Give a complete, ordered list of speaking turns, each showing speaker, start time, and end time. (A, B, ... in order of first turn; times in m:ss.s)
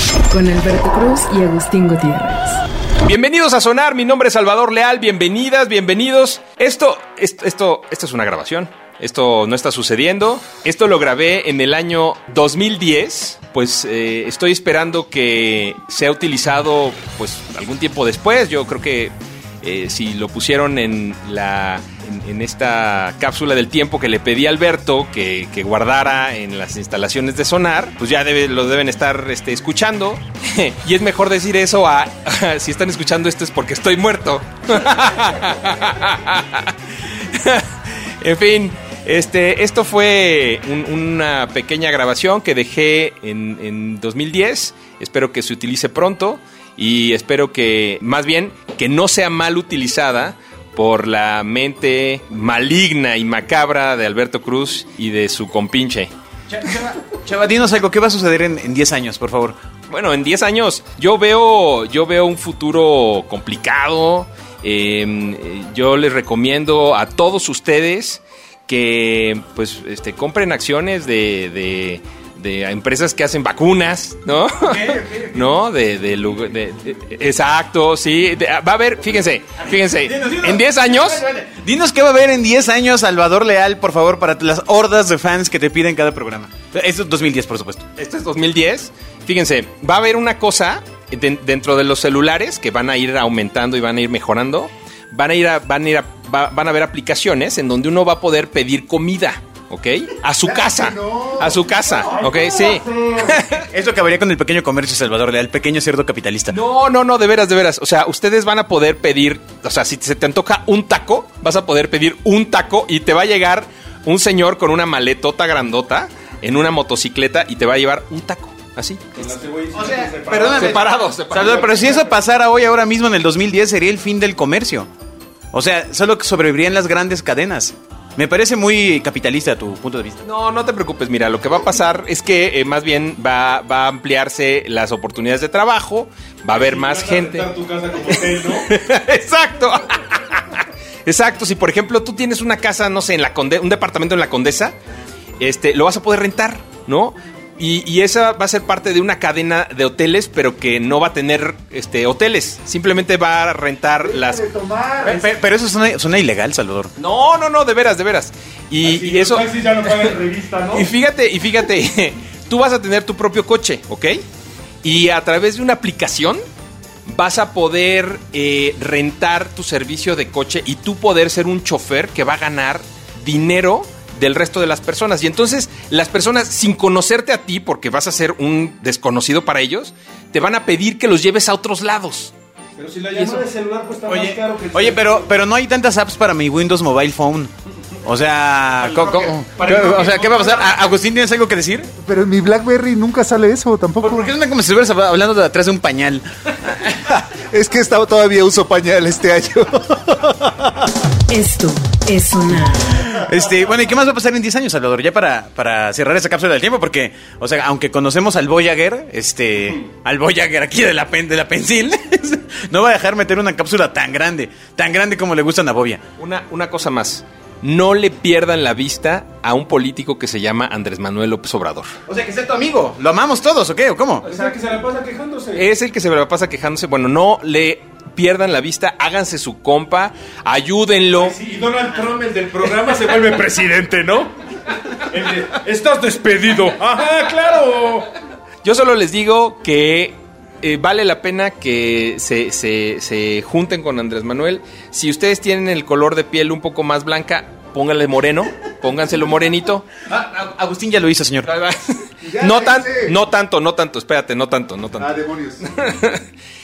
0:00.3-0:02.6 A
0:03.0-0:56.1 B
0:56.5-0:59.6 C
0:59.9-1:21.2 B
1:14.6-1:15.4 C
1:19.9-1:27.9 C
1:28.0-1:43.7 B
1:40.5-1:42.7 D
1:43.7-1:46.6 C
1:46.5-1:59.3 B
1:59.1-2:00.7 E
1:59.7-2:04.9 C
2:00.2-2:02.0 B
2:05.5-2:10.2 C
2:10.2-2:17.5 B
2:16.5-2:18.7 E
2:18.1-2:24.8 B
2:25.4-2:34.4 B
2:34.1-2:35.3 D
2:35.0-2:36.9 C
2:37.0-2:40.1 B
2:38.8-2:40.9 E
2:40.7-2:44.2 B
2:44.8-2:46.4 B
2:47.1-3:02.3 B
3:02.8-3:05.1 E
3:04.0-3:11.9 C
3:08.8-3:10.8 B
3:12.0-3:14.2 D
3:14.0-3:16.9 C
3:17.1-3:20.7 D
3:21.3-3:23.0 A
3:23.0-3:36.0 C
3:36.2-3:41.9 B
3:42.1-3:44.3 C
3:44.2-3:45.6 E
3:45.6-3:51.4 B
3:51.2-3:54.4 E
3:54.9-3:58.1 E
3:58.6-4:09.9 B
4:10.1-4:11.5 C
4:11.5-4:16.2 B
4:12.2-4:13.2 D
4:15.0-4:15.6 D